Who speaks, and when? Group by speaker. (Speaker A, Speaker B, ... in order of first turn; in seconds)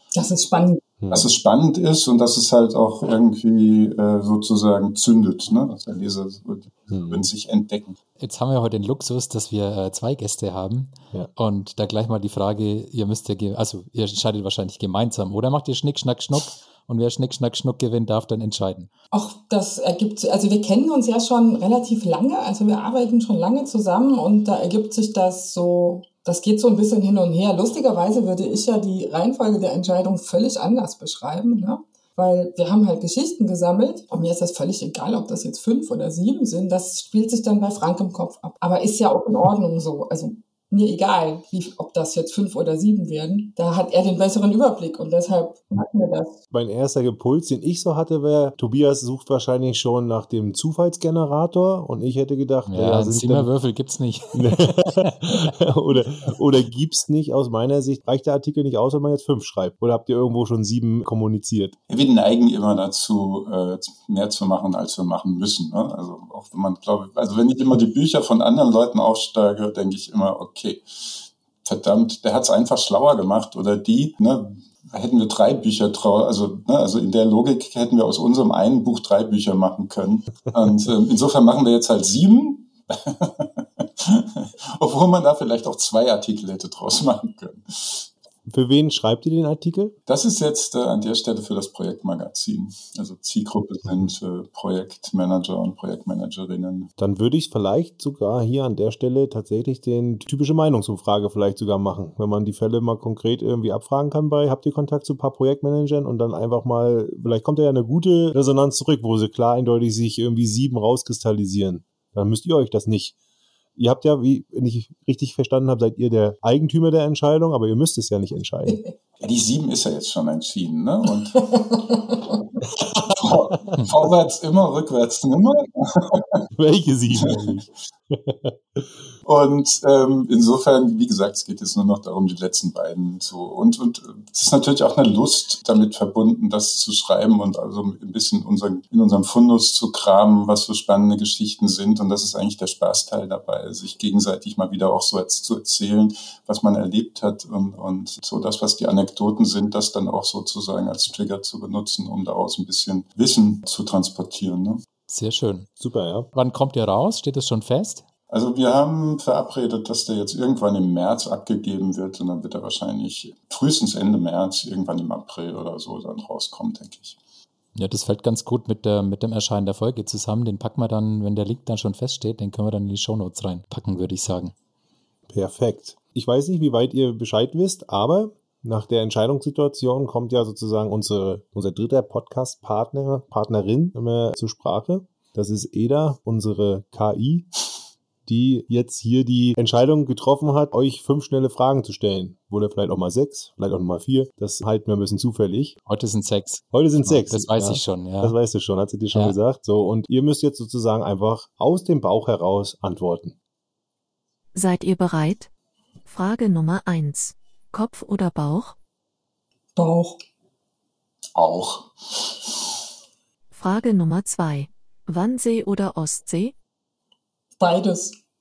Speaker A: 0.1-0.8, 19.1-46.4, 121.6-122.1, 209.8-210.2, 217.6-218.2
Speaker B: 1.0-1.3, 6.9-7.3, 46.5-53.5, 54.3-61.7, 88.5-89.9, 97.0-113.1, 113.8-118.8, 123.2-123.5, 126.5-128.9, 155.8-156.3, 175.3-187.5, 188.2-195.8, 196.7-203.3
Speaker C: 1.1-8.0, 61.9-88.1, 90.0-96.9, 119.2-121.5, 122.8-126.4, 127.2-127.6, 129.2-154.8, 158.3-167.2, 211.3-212.5
Speaker D: 8.2-18.9, 52.7-55.5, 155.1-155.7, 156.3-158.0, 167.7-174.5, 195.9-198.4
Speaker E: 204.5-205.5, 206.1-208.7, 213.5-216.5